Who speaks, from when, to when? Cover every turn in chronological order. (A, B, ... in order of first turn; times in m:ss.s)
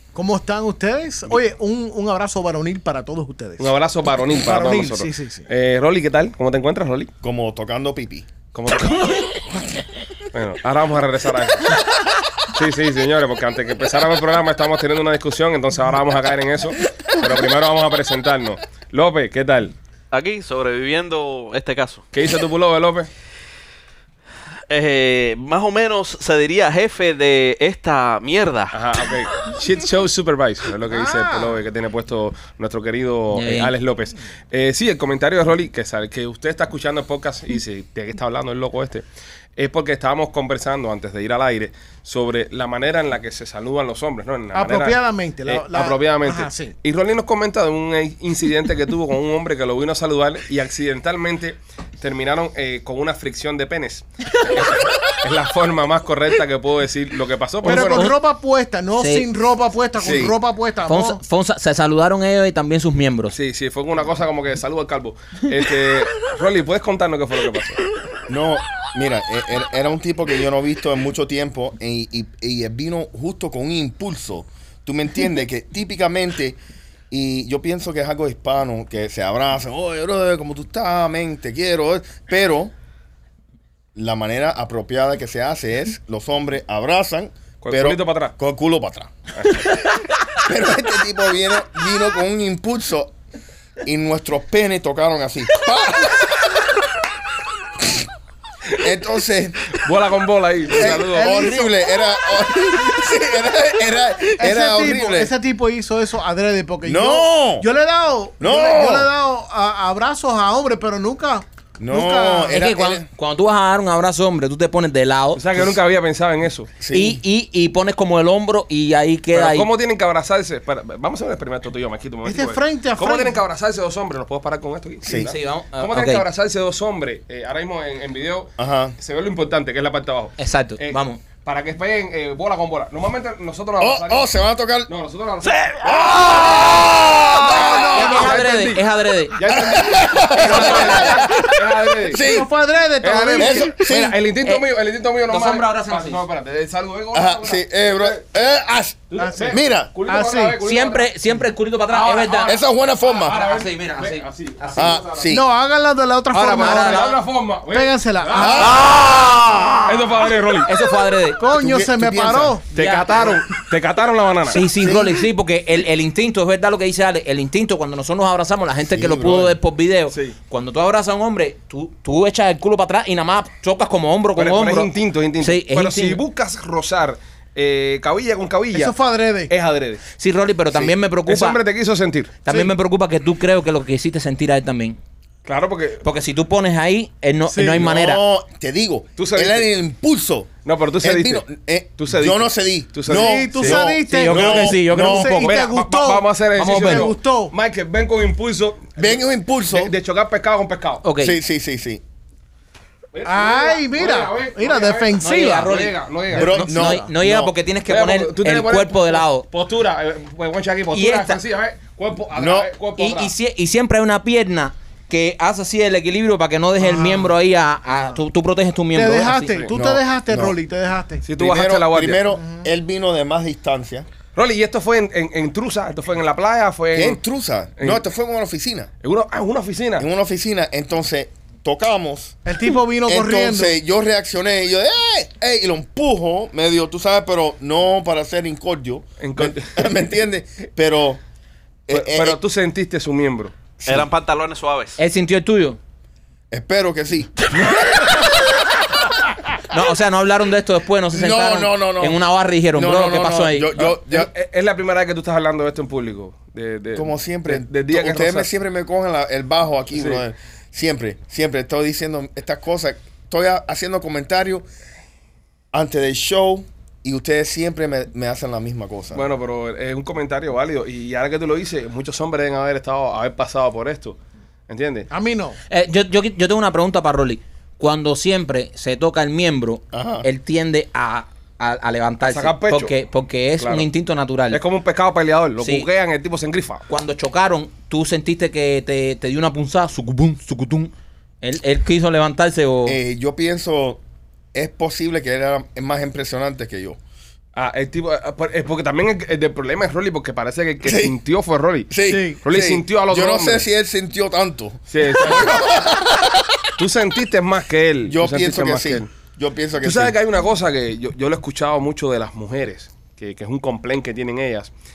0:00.2-0:03.8 A
0:03.6-0:07.1 B
0:04.3-0:05.5 A
0:07.2-0:08.3 C
0:08.5-0:09.4 B
0:10.3-0:11.8 B
0:12.5-0:19.7 B
0:20.1-0:22.1 D
0:22.1-0:23.1 B
0:24.7-0:28.8 D
0:28.7-0:39.0 B
0:30.9-0:31.6 A
0:33.3-0:33.7 E
0:39.6-0:58.2 B
0:44.5-0:46.7 A
0:57.6-0:58.2 E
0:57.6-1:01.2 A
0:59.0-0:59.3 E
1:00.0-1:00.3 B
1:00.0-1:00.4 C
1:00.9-1:03.4 E
1:03.3-1:07.8 B
1:08.3-1:16.6 C
1:17.1-1:22.7 C
1:24.0-1:29.1 C
1:27.6-1:28.3 B
1:30.4-1:33.2 C
1:33.8-1:36.7 C
1:37.8-1:38.1 C
1:38.8-1:39.8 C
1:39.7-1:41.5 B
1:40.7-1:45.3 C
1:40.7-1:41.8 A
1:44.4-1:52.6 A
1:46.8-1:47.7 C
1:48.4-1:49.1 C
1:51.8-1:53.1 C
1:52.5-1:55.4 E
1:55.4-1:56.7 B
1:56.8-1:57.2 C
1:56.9-1:59.7 E
1:59.3-2:14.3 B
2:02.2-2:03.4 A
2:05.0-2:05.3 C
2:05.1-2:06.2 E
2:08.6-2:09.0 C
2:10.4-2:11.2 E
2:13.8-2:14.9 C
2:14.9-2:15.7 B
2:15.5-2:17.4 D
2:15.8-2:18.2 C
2:17.2-2:22.2 B
2:17.5-2:18.3 A
2:17.9-2:19.4 E
2:19.5-2:22.5 C
2:20.3-2:21.4 E
2:22.2-2:23.7 A
2:23.0-2:28.2 B
2:23.4-2:24.2 C
2:25.3-2:26.2 E
2:27.1-2:29.9 C
2:29.1-2:31.1 B
2:29.2-2:30.6 A
2:30.6-2:32.6 E
2:31.9-2:32.6 B
2:32.4-2:33.4 C
2:33.2-2:35.3 B
2:33.2-2:35.0 E
2:34.8-2:35.5 C
2:35.3-2:37.2 A
2:36.3-2:38.9 B
2:36.4-2:37.2 E
2:37.7-2:38.9 A
2:38.4-2:39.7 C
2:38.9-2:39.7 E
2:39.9-2:40.7 B
2:40.7-2:41.4 E
2:41.4-2:42.7 A
2:41.5-2:42.6 C
2:42.8-2:44.6 B
2:42.8-2:43.2 E
2:44.5-2:56.2 E
2:44.8-2:45.2 C
2:48.9-2:49.6 C
2:54.4-2:59.0 B
2:58.7-2:59.5 A
2:59.5-3:00.0 B
3:00.2-3:01.6 E
3:01.3-3:02.4 B
3:02.4-3:05.0 E
3:02.5-3:02.7 A
3:05.4-3:06.0 B
3:06.0-3:08.2 E
3:07.5-3:07.8 A
3:07.7-3:10.5 C
3:09.2-3:09.7 B
3:10.6-3:11.4 B
3:11.0-3:15.5 C
3:12.0-3:13.8 B
3:13.1-3:17.5 A
3:14.1-3:15.5 E
3:15.2-3:21.0 B
3:16.6-3:17.1 E
3:19.0-3:19.9 C
3:21.0-3:21.4 E
3:21.2-3:22.0 C
3:23.1-3:26.6 B
3:23.2-3:25.8 A
3:25.2-3:26.0 E
3:26.3-3:27.1 A
3:26.3-3:27.5 C
3:26.6-3:29.5 E
3:27.9-3:33.3 B
3:30.9-3:31.4 E
3:32.4-3:32.7 C
3:33.0-3:39.6 E
3:36.8-3:37.3 A
3:38.9-3:41.2 A
3:39.7-3:40.6 C
3:41.2-3:42.2 B
3:41.4-3:44.1 C
3:42.3-3:42.7 A
3:44.4-3:47.2 B
3:46.9-3:48.9 C
3:47.8-3:48.0 B
3:49.0-3:50.1 B
3:50.0-3:52.4 C
3:52.5-3:53.8 A
3:53.1-4:01.2 C
3:59.2-4:00.0 B
4:01.9-4:02.4 C
4:01.9-4:03.6 B
4:03.8-4:04.1 C
4:03.9-4:05.0 D
4:05.0-4:05.8 E
4:06.5-4:07.4 C
4:09.7-4:13.7 E
4:11.1-4:12.2 C
4:12.8-4:14.3 C
4:13.8-4:18.5 B
4:17.0-4:24.7 C
4:20.0-4:20.2 B
4:25.7-4:29.3 C
4:29.1-4:34.2 B
4:34.7-4:35.1 B
4:35.1-4:35.6 A
4:35.7-4:44.6 E
4:39.9-4:40.3 C
4:42.3-4:42.9 B
4:43.6-4:43.9 B
4:44.5-4:46.8 B
4:45.6-4:45.9 E
4:46.9-4:53.0 E
4:52.8-4:54.0 C
4:54.5-4:57.0 C
4:57.6-5:03.7 B
5:00.8-5:01.2 C
5:01.9-5:06.7 C
5:02.1-5:02.4 A
5:04.9-5:05.6 B
5:06.8-5:09.1 B
5:08.1-5:10.2 C
5:09.8-5:14.7 B